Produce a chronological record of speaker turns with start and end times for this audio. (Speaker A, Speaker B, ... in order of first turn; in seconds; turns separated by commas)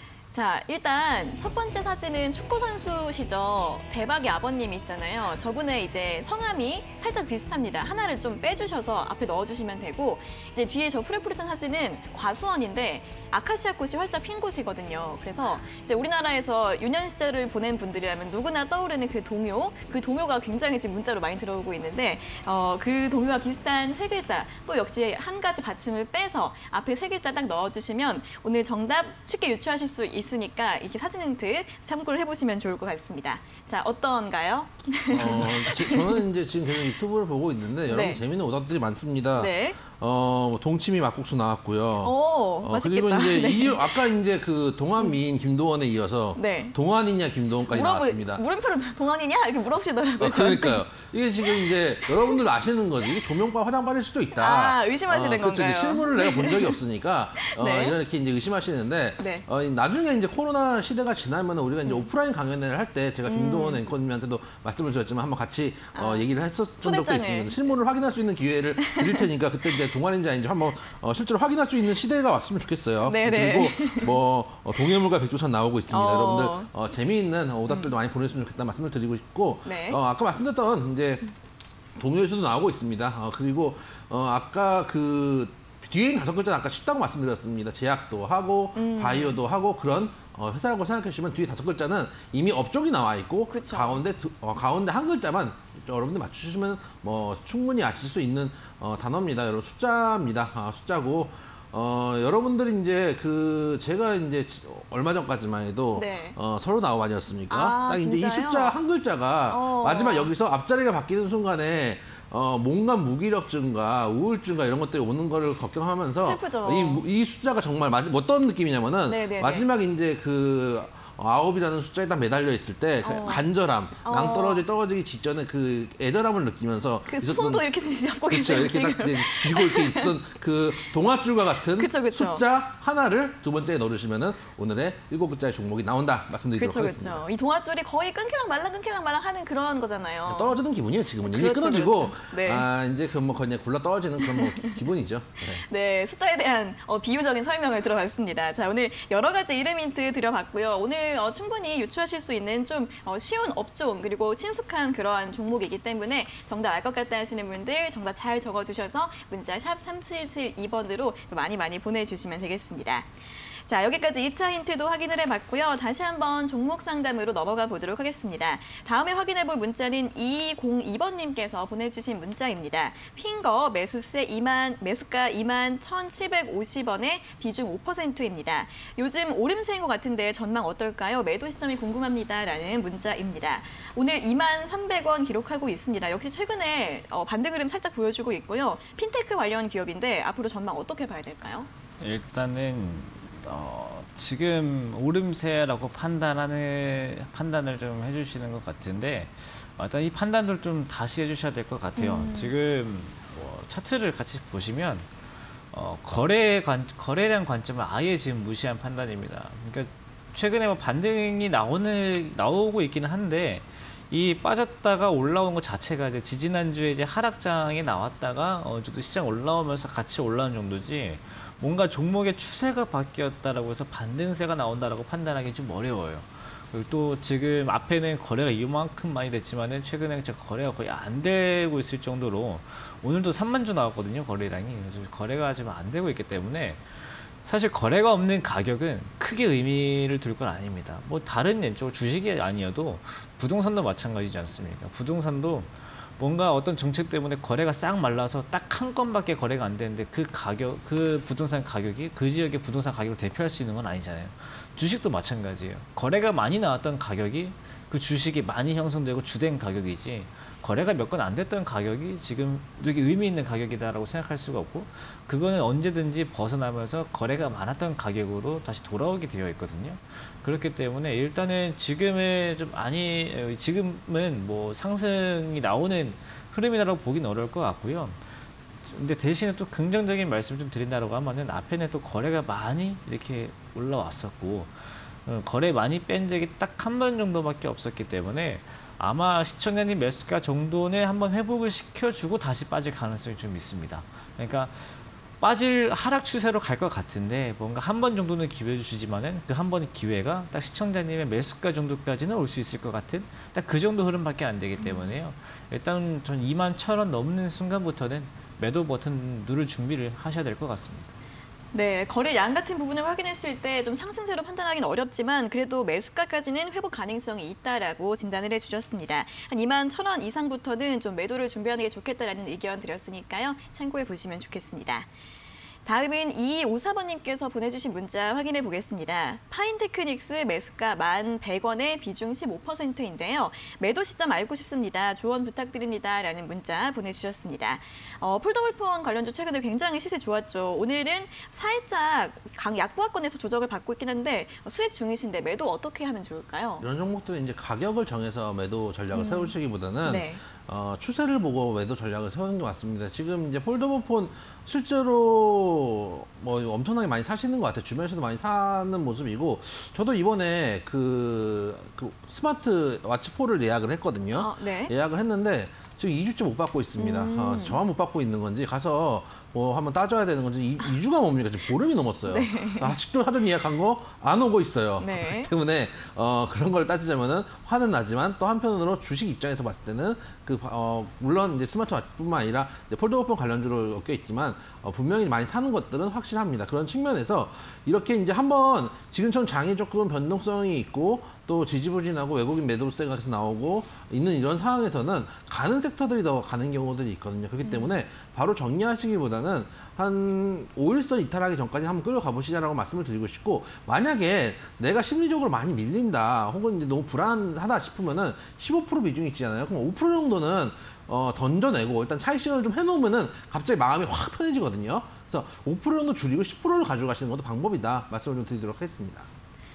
Speaker A: 0.3-36.2, Speaker B: 35.1-48.4, Speaker A: 37.9-38.2, Speaker A: 39.4-39.8, Speaker A: 42.0-44.0, Speaker A: 46.4-46.7, Speaker A: 47.7-50.8, Speaker B: 50.2-81.2, Speaker A: 51.5-52.4, Speaker A: 54.3-56.8, Speaker A: 57.4-58.0, Speaker A: 59.2-59.5, Speaker A: 63.3-63.8, Speaker A: 65.9-66.3, Speaker A: 66.8-67.5, Speaker A: 68.9-69.2, Speaker A: 73.0-74.2, Speaker A: 75.9-76.7, Speaker A: 77.7-77.9, Speaker A: 79.6-80.0, Speaker B: 82.0-127.6, Speaker A: 88.7-89.4, Speaker A: 93.5-94.0, Speaker A: 105.9-106.4, Speaker A: 107.5-108.8, Speaker A: 109.5-110.3, Speaker A: 116.2-117.0, Speaker A: 119.1-119.7, Speaker A: 123.0-123.4, Speaker A: 124.0-124.6, Speaker A: 127.1-130.1, Speaker B: 128.3-137.2, Speaker A: 131.7-132.4, Speaker A: 136.6-140.6, Speaker B: 140.2-145.6, Speaker A: 141.2-142.7, Speaker A: 144.2-144.7, Speaker A: 145.6-163.1, Speaker A: 163.7-191.7, Speaker C: 192.0-205.1, Speaker A: 202.0-202.5, Speaker C: 205.7-278.2, Speaker C: 278.9-311.1, Speaker A: 304.8-305.1, Speaker A: 311.7-325.1, Speaker A: 325.9-346.8, Speaker B: 346.8-419.3, Speaker A: 349.1-349.5, Speaker A: 350.0-350.4, Speaker A: 364.3-364.9, Speaker A: 367.0-367.8, Speaker A: 372.3-372.9, Speaker A: 375.0-375.5, Speaker A: 397.6-398.0